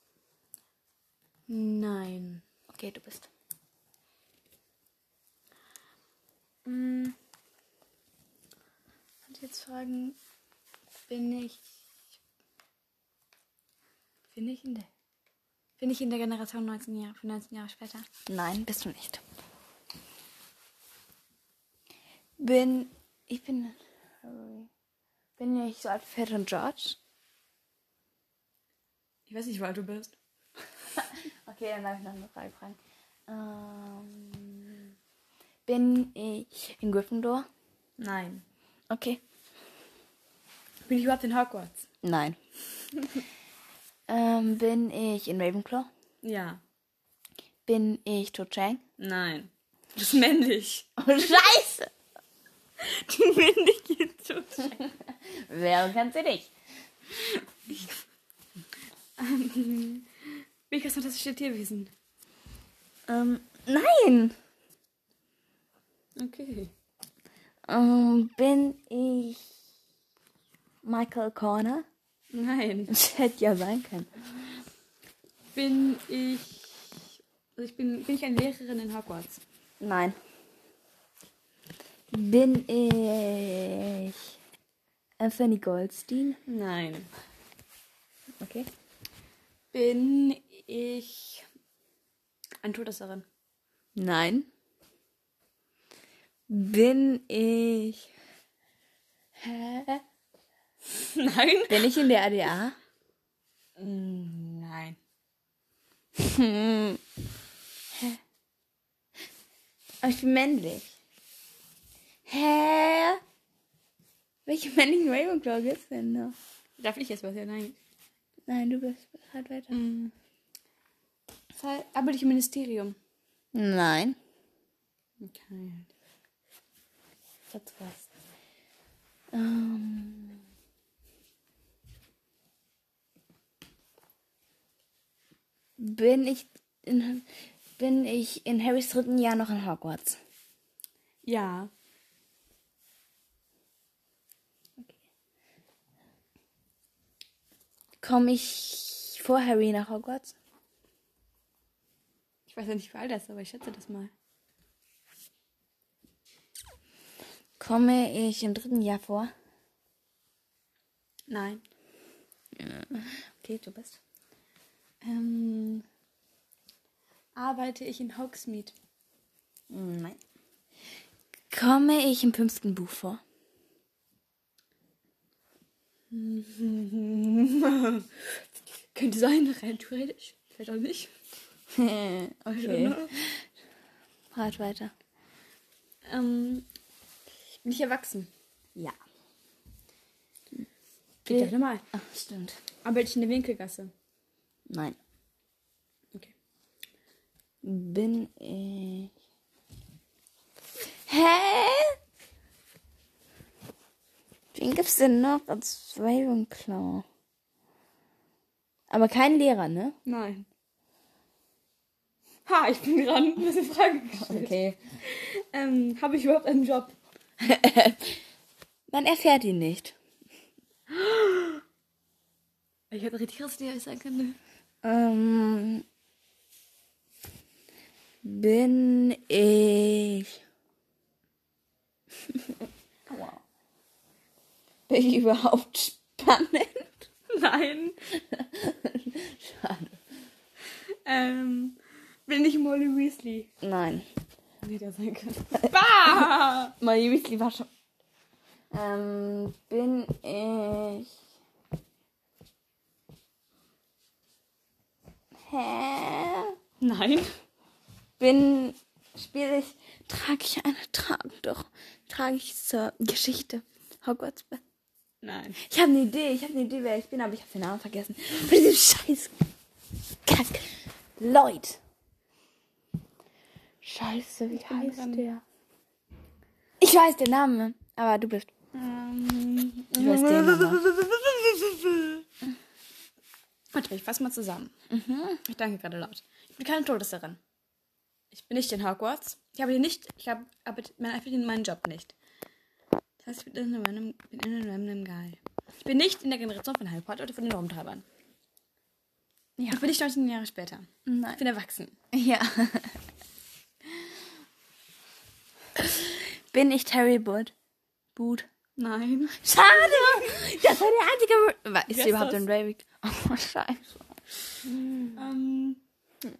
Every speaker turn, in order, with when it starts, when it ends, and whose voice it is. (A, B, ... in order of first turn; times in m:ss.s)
0:01.5-0:02.4 A
0:02.7-0:03.3 B
0:06.6-0:07.2 A
0:09.2-0:10.2 A
0:11.1-0:11.6 A
0:14.3-0:14.9 A
0:15.8-0:18.1 A
0:18.3-0:19.2 B
0:22.4-0:24.7 B
0:25.4-0:27.0 B
0:29.3-0:30.2 A
0:31.0-0:34.8 B
0:35.7-0:37.5 B
0:38.0-0:38.4 A
0:38.9-0:39.2 B
0:40.8-0:41.8 A
0:42.0-0:42.4 B
0:44.1-0:45.9 B
0:46.2-0:46.6 A
0:47.6-0:48.8 B
0:49.0-0:50.9 A
0:51.0-0:51.9 B
0:52.8-0:54.8 A
0:54.8-0:56.5 B
0:57.7-0:57.9 A
0:59.2-1:01.9 A
1:03.1-1:04.4 B
1:06.2-1:06.7 A
1:07.7-1:09.5 B
1:10.8-1:11.8 B
1:12.3-1:12.9 A
1:12.9-1:14.1 B
1:15.5-1:19.4 A
1:19.8-1:20.2 B
1:22.1-1:24.2 B
1:25.2-1:26.4 B
1:26.4-1:27.1 A
1:28.4-1:28.7 B
1:29.7-1:31.5 A
1:32.6-1:33.2 A
1:33.9-1:34.5 B
1:36.5-1:38.1 B
1:39.4-1:40.0 B
1:40.9-1:42.0 A
1:41.7-1:42.8 B
1:43.8-1:45.0 A
1:46.2-1:47.0 B
1:47.9-1:48.2 B
1:50.0-1:50.9 B
1:52.3-1:53.2 B
1:54.4-1:56.4 B
1:56.8-1:57.8 A
1:58.5-1:59.7 B
1:59.7-2:00.1 A
2:01.5-2:03.0 A
2:03.5-2:04.2 B
2:05.2-2:05.9 A
2:07.5-2:08.0 A
2:09.3-2:10.4 B
2:15.8-2:17.3 B
2:17.8-2:20.2 B
2:21.2-2:21.7 A
2:28.0-2:30.3 B
2:32.5-2:34.1 A
2:37.6-2:39.3 B
2:41.3-2:41.6 A
2:42.6-2:44.0 B
2:45.0-2:45.8 A
2:47.3-2:48.7 A
2:49.7-2:50.2 B
2:51.5-2:53.2 B
2:56.1-2:58.3 A
2:58.9-3:01.1 A
3:01.7-3:03.4 B
3:02.5-3:03.1 A
3:04.3-3:04.9 B
3:06.0-3:06.7 A
3:07.6-3:08.3 A
3:11.2-3:11.8 A
3:11.3-3:12.6 B
3:12.8-3:13.9 A
3:14.7-3:15.0 B
3:17.6-3:19.1 B
3:21.0-3:22.0 B
3:24.5-3:27.0 B
3:28.9-3:30.0 B
3:30.0-3:30.5 A
3:32.4-3:36.9 A
3:34.1-3:34.8 B
3:37.4-3:38.2 B
3:38.9-3:39.9 B
3:40.9-3:41.6 A
3:42.9-3:44.4 A
3:44.8-3:45.8 B
3:48.2-3:50.4 B
3:54.9-3:57.1 B
3:57.3-3:58.0 A
3:58.3-4:00.0 B
4:01.0-4:03.5 A
4:03.6-4:04.1 B
4:04.6-4:06.7 A
4:06.8-4:07.7 B
4:08.7-4:11.1 B
4:15.5-4:16.5 B
4:16.8-4:17.3 A
4:18.2-4:24.6 B
4:25.2-4:25.6 A
4:25.6-4:29.4 B
4:30.2-4:31.8 B
4:33.8-4:35.4 B
4:34.5-4:35.2 A
4:36.8-4:38.6 B
4:38.7-4:42.2 A
4:39.9-4:40.8 B
4:43.7-4:44.7 A
4:44.9-4:45.4 B
4:45.4-4:47.4 A
4:48.3-4:52.1 A
4:53.2-4:58.0 A
4:59.6-4:59.8 B
4:59.7-5:02.0 A
5:01.0-5:01.4 B
5:02.1-5:03.0 B
5:05.8-5:07.5 B
5:08.2-5:08.4 B
5:08.8-5:10.4 A
5:09.4-5:14.2 B
5:11.9-5:12.4 A
5:14.6-5:15.8 A